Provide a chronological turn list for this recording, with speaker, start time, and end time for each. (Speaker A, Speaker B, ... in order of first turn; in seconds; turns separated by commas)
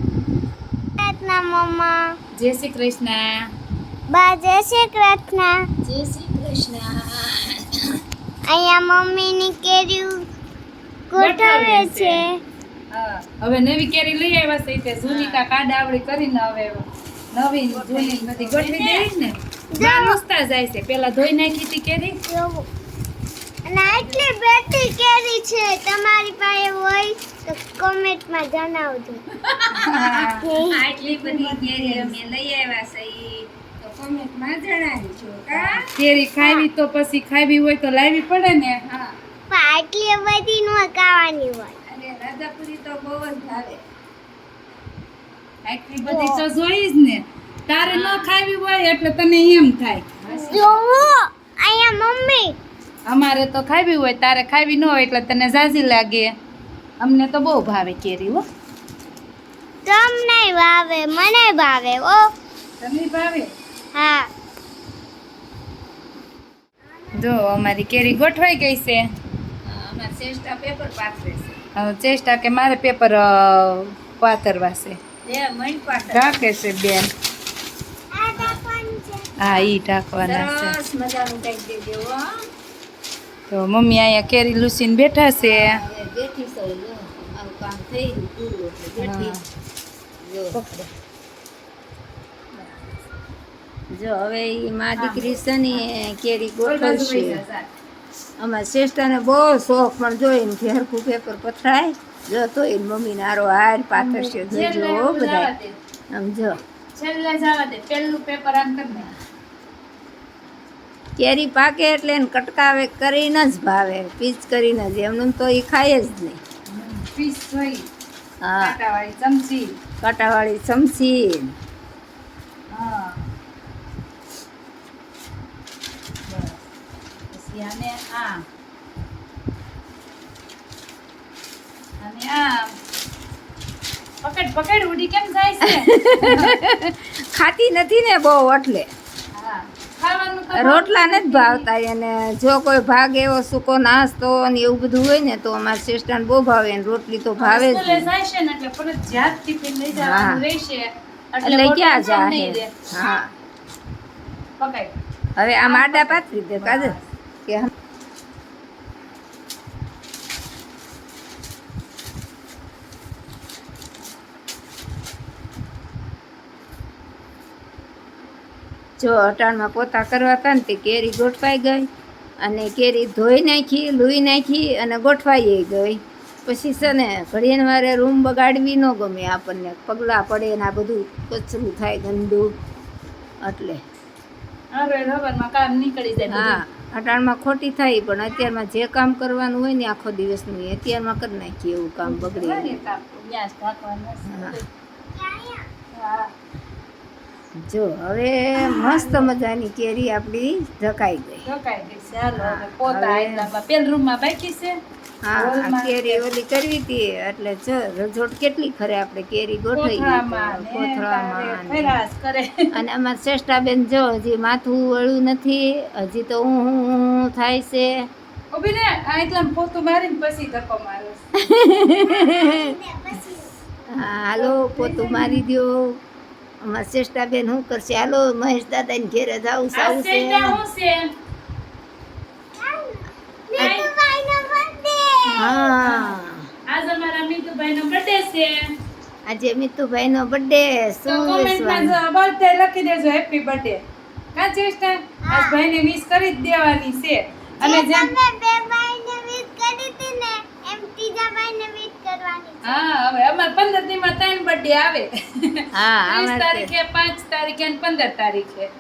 Speaker A: 1.0-2.1, Speaker B: 2.4-3.4, Speaker A: 4.1-5.7, Speaker C: 5.8-7.8, Speaker A: 8.5-10.2, Speaker A: 11.1-12.4, Speaker B: 11.2-12.2, Speaker B: 12.9-22.2, Speaker C: 15.1-15.5, Speaker C: 17.7-19.1, Speaker A: 19.7-20.2, Speaker A: 22.2-22.7, Speaker A: 23.7-29.2, Speaker C: 29.5-35.9, Speaker B: 29.7-30.5, Speaker A: 30.1-30.8, Speaker B: 31.2-32.1, Speaker B: 35.5-38.8, Speaker A: 36.4-36.7, Speaker A: 39.5-41.8, Speaker C: 41.9-43.8, Speaker B: 45.6-50.8, Speaker A: 46.0-46.4, Speaker C: 47.9-48.1, Speaker C: 50.2-50.8, Speaker A: 50.5-52.5, Speaker B: 53.1-56.3, Speaker B: 57.0-58.4, Speaker A: 59.9-62.2, Speaker B: 62.8-63.5, Speaker A: 63.9-64.3, Speaker B: 67.1-69.0, Speaker C: 69.6-71.5, Speaker B: 71.8-75.0, Speaker C: 75.2-76.5, Speaker B: 75.9-77.1, Speaker A: 78.1-79.3, Speaker B: 79.4-80.8, Speaker C: 79.4-82.5, Speaker B: 83.5-85.8, Speaker C: 85.3-89.4, Speaker B: 89.0-89.4, Speaker C: 90.2-90.7, Speaker C: 93.9-97.4, Speaker B: 95.0-95.4, Speaker B: 96.6-97.7, Speaker C: 98.4-105.5, Speaker B: 103.9-105.7, Speaker C: 106.1-106.6, Speaker B: 106.9-109.1, Speaker C: 111.2-116.4, Speaker B: 116.7-117.9, Speaker C: 118.4-118.8, Speaker B: 118.6-119.7, Speaker C: 120.0-121.5, Speaker B: 122.7-123.2, Speaker B: 126.2-126.6, Speaker B: 127.3-128.4, Speaker B: 132.0-132.7, Speaker B: 134.2-136.6, Speaker C: 135.6-138.9, Speaker B: 139.3-141.7, Speaker C: 140.5-148.1, Speaker B: 147.4-152.7, Speaker C: 149.9-150.4, Speaker C: 151.4-153.3, Speaker B: 154.6-154.9, Speaker C: 155.4-157.7, Speaker B: 155.6-157.1, Speaker C: 169.0-171.9, Speaker C: 172.4-182.5, Speaker C: 183.4-183.8, Speaker B: 184.7-186.6, Speaker C: 186.3-192.7, Speaker B: 192.0-194.7, Speaker C: 194.2-194.6, Speaker A: 195.1-195.7, Speaker B: 195.9-196.3, Speaker C: 197.6-201.4, Speaker B: 198.6-199.3, Speaker B: 201.4-204.8, Speaker C: 202.4-203.5, Speaker C: 205.2-212.0, Speaker B: 205.3-206.2, Speaker B: 209.7-212.7, Speaker C: 212.7-218.1, Speaker B: 218.5-221.2, Speaker C: 221.4-222.7, Speaker A: 222.0-223.5, Speaker C: 223.9-226.0, Speaker B: 224.3-225.4, Speaker C: 226.6-230.6, Speaker B: 229.7-231.1, Speaker A: 232.6-235.8, Speaker B: 233.6-233.9, Speaker C: 235.2-236.4, Speaker B: 235.8-236.2, Speaker B: 236.7-238.6, Speaker C: 239.3-242.0, Speaker B: 241.1-243.8, Speaker B: 244.3-248.1, Speaker A: 245.3-245.5, Speaker A: 247.6-252.8, Speaker B: 252.6-258.7, Speaker C: 255.7-256.7